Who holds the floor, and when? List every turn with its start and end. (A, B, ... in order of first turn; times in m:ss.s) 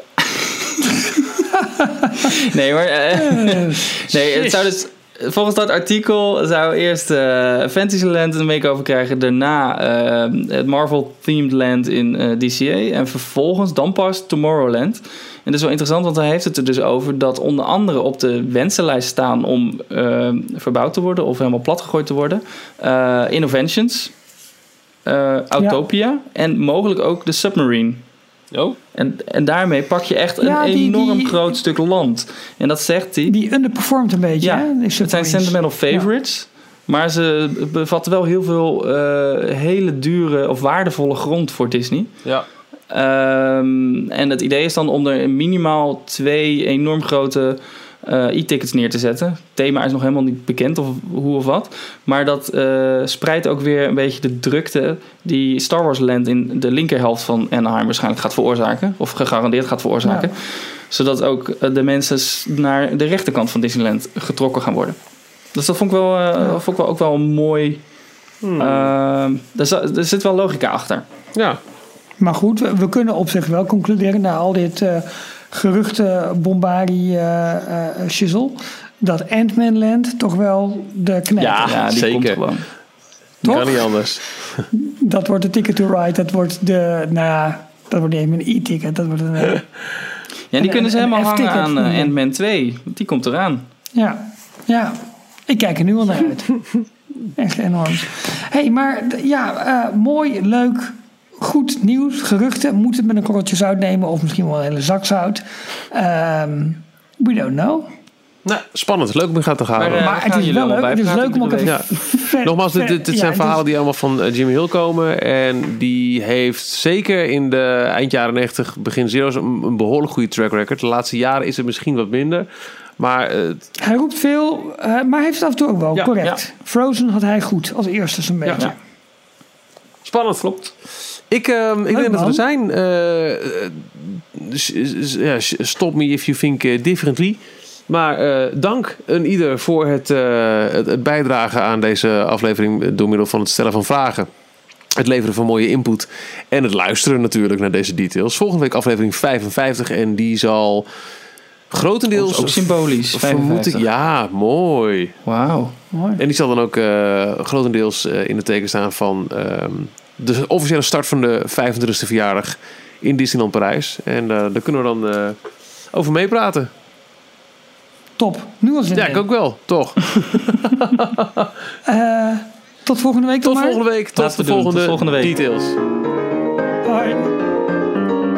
0:00.2-0:01.4 A
0:01.5-0:02.4 B
0:02.2-0:24.1 A
0:03.1-0:04.6 B
0:25.0-0:28.0 A
0:28.5-0:28.8 C
0:28.9-0:33.3 A
0:30.4-0:31.6 B
0:33.3-0:36.1 B
0:34.4-0:42.1 A
0:42.9-1:05.0 A
1:00.0-1:00.3 B
1:05.5-1:07.8 A
1:08.4-1:08.9 C
1:08.6-1:11.0 A
1:11.3-1:11.6 C
1:12.2-1:21.8 B
1:21.4-1:22.4 C
1:21.6-1:22.6 A
1:23.4-1:23.9 B
1:23.4-1:24.6 C
1:24.7-1:29.7 B
1:30.5-1:33.6 A
1:30.6-1:32.1 B
1:33.9-1:36.6 B
1:37.4-1:47.9 B
1:48.4-1:50.1 C
1:49.8-1:51.8 A
1:49.9-1:53.6 B
1:51.7-2:02.4 C
2:03.0-2:03.6 C
2:03.8-2:08.8 B
2:10.0-2:10.5 C
2:10.4-2:10.7 A
2:11.3-2:24.3 C
2:11.9-2:12.4 B
2:25.0-2:30.8 C
2:31.7-2:35.2 C
2:32.1-2:33.8 A
2:35.2-2:35.7 A
2:35.9-2:36.2 B
2:36.2-2:45.4 C
2:45.9-2:46.7 C
2:48.2-2:49.2 B
2:48.9-2:51.5 C
2:51.8-2:53.8 B
2:53.4-2:55.8 C
2:54.2-2:55.4 A
2:56.8-2:57.3 B